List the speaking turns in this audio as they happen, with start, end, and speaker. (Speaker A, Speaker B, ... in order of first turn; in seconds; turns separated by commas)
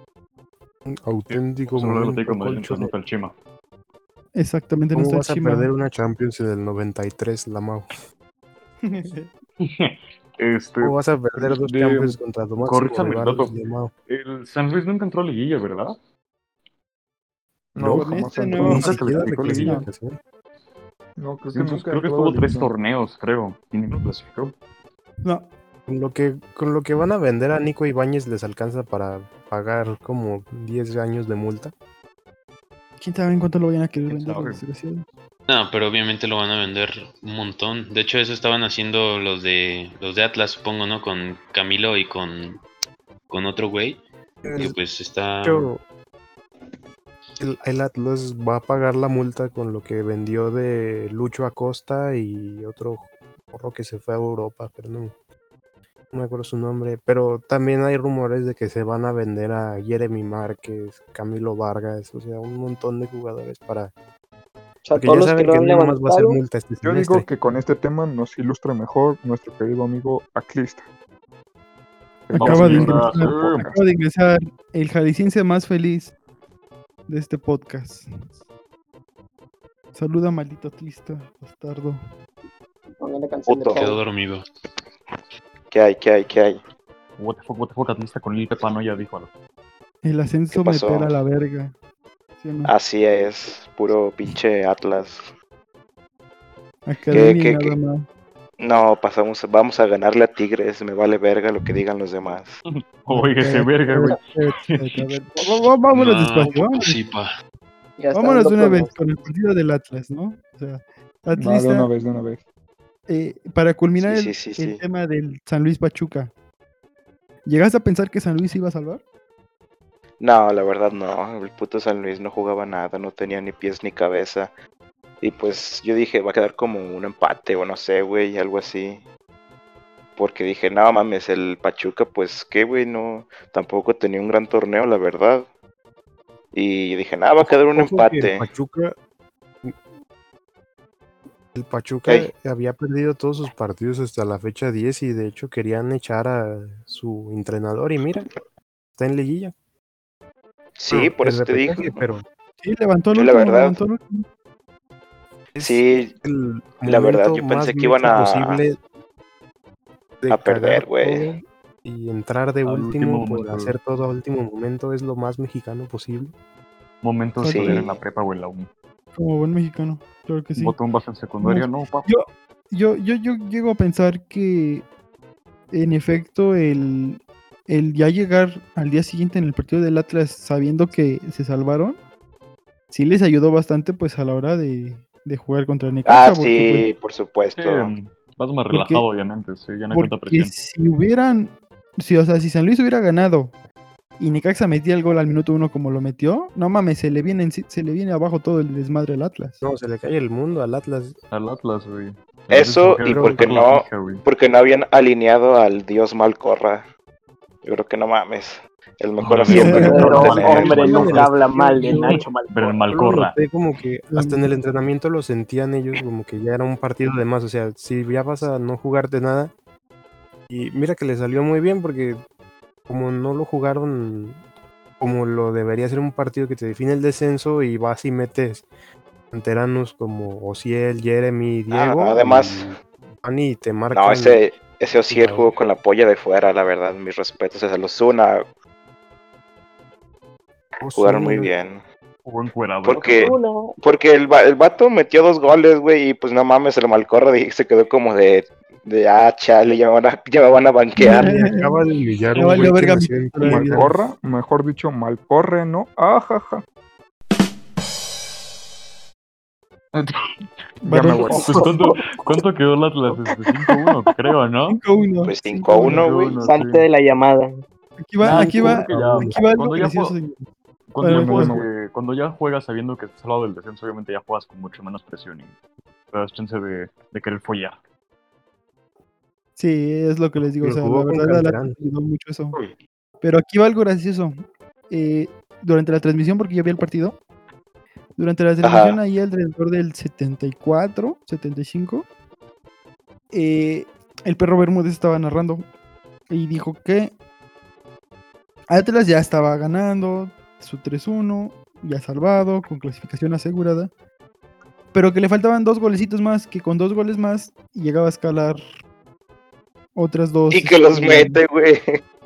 Speaker A: 0.8-2.9, Speaker B: 1.3-3.3, Speaker C: 4.3-5.7, Speaker A: 4.9-7.9, Speaker C: 8.8-9.3, Speaker B: 9.6-13.5, Speaker A: 10.8-13.9, Speaker B: 14.1-16.0, Speaker D: 17.8-18.8, Speaker A: 17.8-20.2, Speaker C: 17.9-18.9, Speaker B: 18.6-19.8, Speaker C: 19.6-19.9, Speaker D: 21.2-22.7, Speaker B: 21.5-24.6, Speaker C: 25.2-25.5, Speaker A: 25.9-31.7, Speaker C: 33.0-35.0, Speaker B: 34.1-34.6, Speaker E: 35.5-42.6, Speaker E: 43.3-45.7, Speaker A: 44.4-44.8, Speaker A: 45.4-45.8, Speaker A: 47.4-55.1, Speaker A: 56.1-63.9, Speaker F: 64.8-66.4, Speaker A: 65.0-67.3, Speaker D: 66.8-70.9, Speaker D: 72.3-73.8, Speaker B: 72.3-73.7, Speaker C: 72.4-76.1, Speaker C: 77.1-78.1, Speaker C: 79.9-82.0, Speaker F: 83.0-84.0, Speaker G: 83.5-83.8, Speaker E: 83.8-84.5, Speaker G: 85.7-86.6, Speaker B: 87.2-89.3, Speaker C: 90.0-91.7, Speaker G: 90.5-91.1, Speaker C: 92.4-92.7, Speaker G: 92.7-95.3, Speaker C: 96.9-98.0, Speaker G: 97.1-97.8, Speaker G: 98.6-102.6, Speaker B: 102.7-105.0, Speaker C: 103.1-107.0, Speaker E: 105.9-107.3, Speaker F: 108.0-109.0, Speaker C: 108.1-111.9, Speaker D: 111.3-112.4, Speaker C: 113.1-116.3, Speaker G: 114.0-114.8, Speaker C: 117.5-119.0, Speaker G: 120.2-124.5, Speaker G: 125.2-129.0, Speaker G: 130.2-135.5, Speaker G: 136.5-138.5, Speaker A: 137.4-138.9, Speaker A: 141.5-148.3, Speaker A: 149.0-149.5, Speaker G: 150.8-152.0, Speaker A: 150.9-152.2, Speaker C: 152.6-154.2, Speaker G: 153.1-153.8, Speaker A: 155.5-158.8, Speaker G: 155.6-156.1, Speaker G: 156.8-158.6, Speaker A: 160.2-166.3, Speaker G: 160.3-161.3, Speaker B: 162.6-163.8, Speaker B: 167.0-168.7, Speaker C: 167.4-167.9, Speaker G: 167.5-168.0, Speaker C: 169.1-170.8, Speaker B: 170.6-172.1, Speaker C: 171.4-174.8, Speaker C: 175.7-182.0, Speaker C: 182.9-186.9, Speaker G: 186.1-187.9, Speaker B: 187.5-190.5, Speaker C: 188.7-189.0, Speaker C: 189.9-193.5, Speaker C: 194.2-199.6, Speaker A: 199.6-201.1, Speaker B: 201.3-204.2, Speaker G: 202.5-206.9, Speaker A: 203.0-203.6, Speaker G: 207.6-211.2, Speaker B: 209.2-211.3, Speaker C: 209.5-210.0, Speaker A: 209.7-212.2, Speaker F: 209.8-212.8, Speaker B: 211.9-213.4, Speaker A: 212.9-219.5, Speaker C: 214.1-214.5, Speaker A: 220.5-222.2, Speaker A: 222.9-224.4, Speaker A: 225.0-228.7, Speaker A: 229.3-234.4, Speaker G: 231.7-232.7, Speaker G: 233.9-238.4, Speaker A: 235.1-235.5, Speaker A: 240.8-241.5, Speaker G: 240.9-241.8, Speaker B: 242.2-243.4, Speaker G: 242.8-251.3, Speaker F: 243.1-243.8, Speaker C: 251.0-251.7, Speaker A: 251.0-254.0, Speaker C: 252.4-253.9, Speaker D: 253.4-256.6, Speaker D: 260.8-261.7, Speaker C: 260.8-261.4, Speaker B: 261.3-264.8, Speaker C: 264.7-266.1, Speaker G: 265.2-266.4, Speaker B: 265.8-266.9, Speaker F: 266.4-267.6, Speaker C: 268.0-270.4, Speaker B: 268.2-270.1, Speaker A: 268.2-269.4, Speaker B: 270.9-275.5, Speaker C: 271.0-271.6, Speaker D: 271.1-271.7, Speaker B: 276.1-277.8, Speaker C: 279.6-282.6, Speaker A: 280.4-281.8, Speaker C: 283.2-284.4, Speaker C: 284.9-287.2, Speaker C: 288.2-292.1, Speaker G: 288.6-289.0, Speaker C: 293.3-295.6, Speaker C: 296.3-297.1, Speaker C: 298.7-303.9, Speaker C: 304.9-308.6, Speaker C: 309.9-311.4, Speaker G: 310.5-312.0